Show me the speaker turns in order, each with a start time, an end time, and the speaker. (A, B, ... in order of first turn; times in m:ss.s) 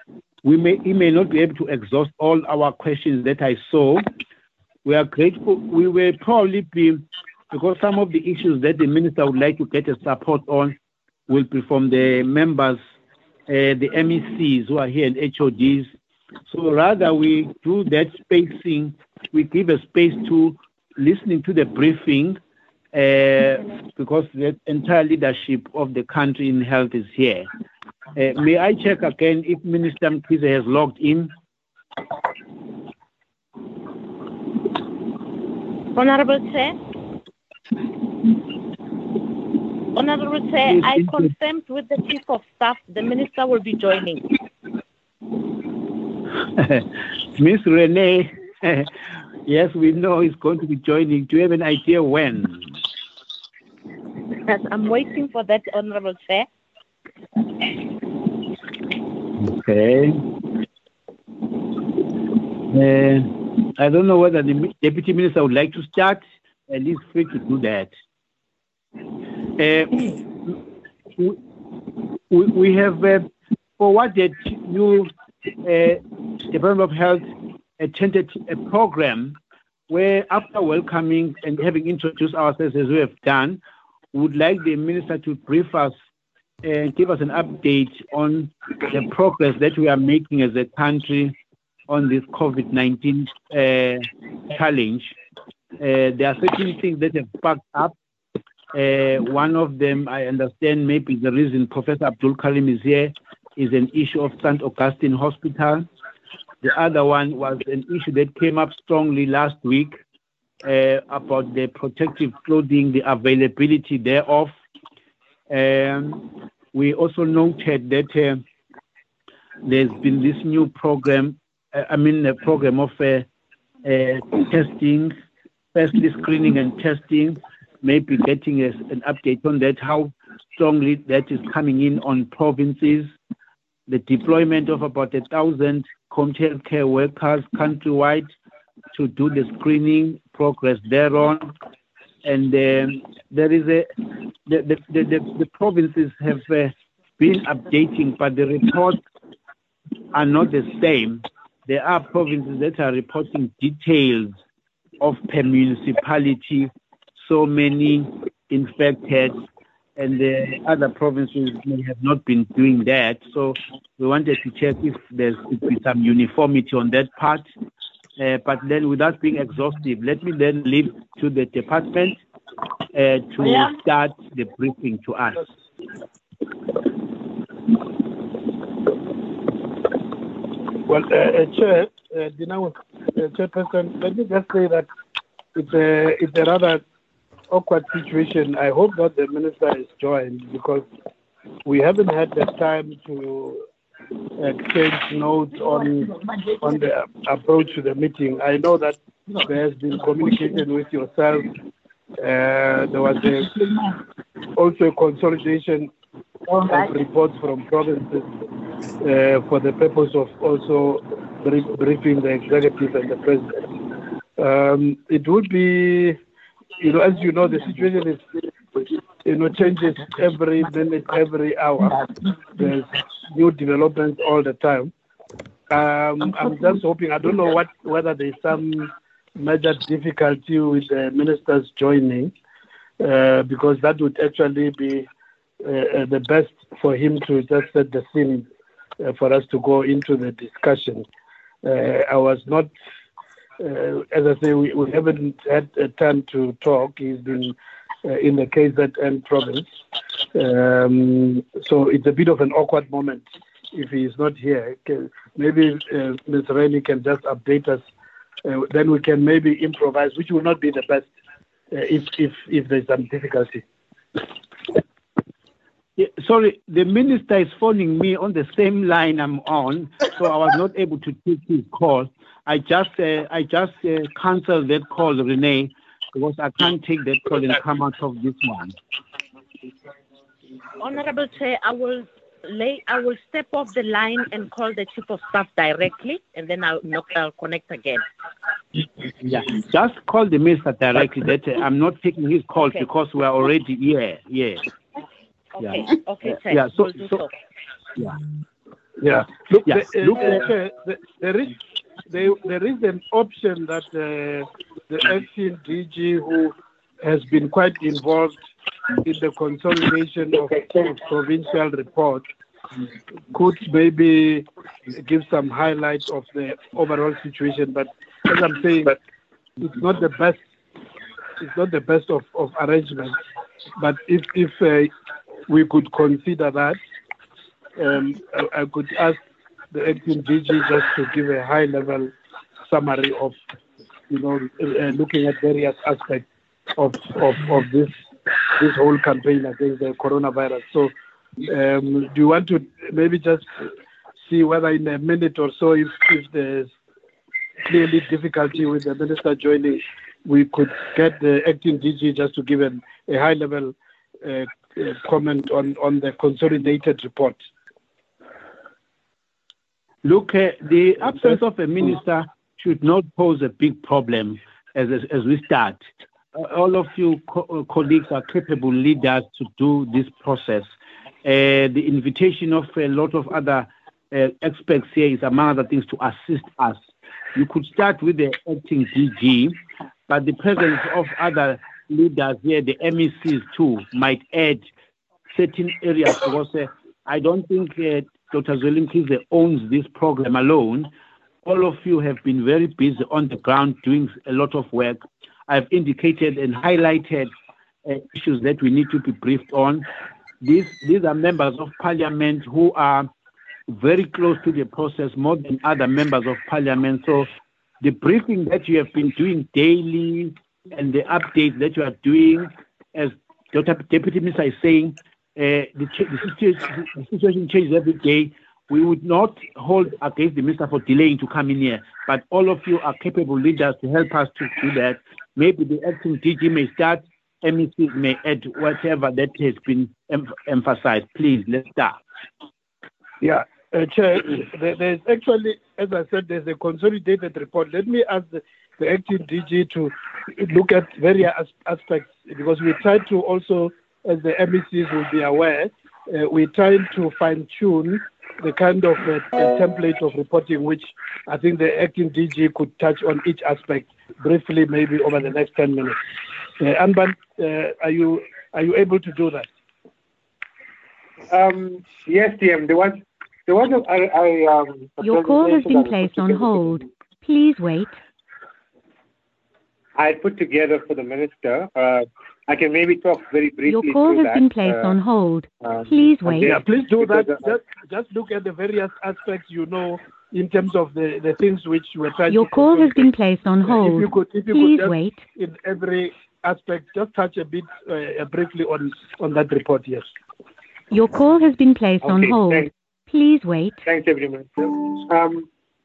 0:00.4-0:04.1 A
0:04.8-0:10.8 A
0:11.3-0:12.8 A
0:13.5-0:15.9 A
0:16.5-0:22.4 A
0:22.9-0:27.5 A
0:28.1-0:31.3 A
0:35.9-0:36.8 B
0:39.9-0:44.3 B
0:40.7-0:41.3 A
0:46.6-0:48.9 A
0:49.4-0:52.8 A
0:54.4-0:56.5 B
0:59.4-1:00.2 A
1:02.7-1:07.9 A
1:09.6-1:10.6 A
1:12.3-1:13.3 A
1:13.8-1:15.1 A
1:15.6-1:17.2 A
1:17.8-1:19.4 A
1:19.9-1:23.6 A
1:24.1-1:25.9 A
1:26.6-1:31.4 A
1:31.9-1:35.2 A
1:35.8-1:37.9 A
1:38.7-1:45.9 A
1:46.6-1:50.0 A
1:50.6-1:54.5 A
1:55.5-1:58.4 A
1:59.6-2:03.2 A
2:03.8-2:05.2 A
2:05.7-2:13.1 A
2:13.9-2:18.3 A
2:18.9-2:21.5 A
2:22.2-2:23.9 A
2:24.5-2:29.0 A
2:30.1-2:34.4 A
2:35.0-2:39.4 A
2:40.0-2:47.5 A
2:48.2-2:52.2 A
2:52.9-2:55.4 A
3:00.9-3:04.9 C
3:05.5-3:06.8 C
3:07.5-3:10.8 C
3:11.6-3:13.6 C
3:14.4-3:21.5 C
3:22.2-3:23.9 C
3:24.6-3:25.9 C
3:26.5-3:28.3 C
3:29.0-3:33.6 C
3:34.4-3:36.2 C
3:36.8-3:44.9 C
3:45.7-3:52.3 C
3:53.0-3:55.1 C
3:55.6-3:58.4 C
3:59.0-4:01.0 C
4:01.6-4:02.7 C
4:03.6-4:09.8 C
4:10.3-4:17.9 C
4:18.4-4:21.1 C
4:21.7-4:23.6 C
4:26.0-4:38.7 A
4:40.8-4:48.0 B
4:49.2-4:54.6 A
4:55.6-4:57.3 B
4:55.6-4:57.2 A
4:59.0-5:01.6 C
4:59.6-5:00.5 A
5:02.1-5:08.5 C
5:09.0-5:12.2 C
5:13.3-5:19.0 C
5:19.6-5:20.4 C
5:21.4-5:23.2 C
5:23.8-5:24.9 C
5:25.5-5:26.8 C
5:27.8-5:29.2 C
5:29.7-5:32.1 C
5:32.6-5:33.3 C
5:34.1-5:36.2 C
5:36.8-5:40.9 C
5:41.4-5:43.5 C
5:44.2-5:46.7 C
5:47.6-5:57.4 C
6:00.0-6:10.7 A
6:11.2-6:24.7 A
6:25.3-6:30.9 A
6:31.4-6:37.3 A
6:37.8-6:39.9 A
6:40.4-6:43.1 A
6:43.7-6:47.3 A
6:47.8-7:12.0 A
7:13.2-7:36.0 C
7:36.6-7:39.5 C
7:41.3-7:46.8 D
7:45.0-7:48.0 E
7:50.0-7:54.9 D
7:53.7-7:56.5 E
7:55.6-7:57.5 D
7:56.4-8:10.1 C
8:02.3-8:05.2 E
8:10.9-8:13.8 E
8:12.0-8:12.7 D
8:13.8-8:15.5 D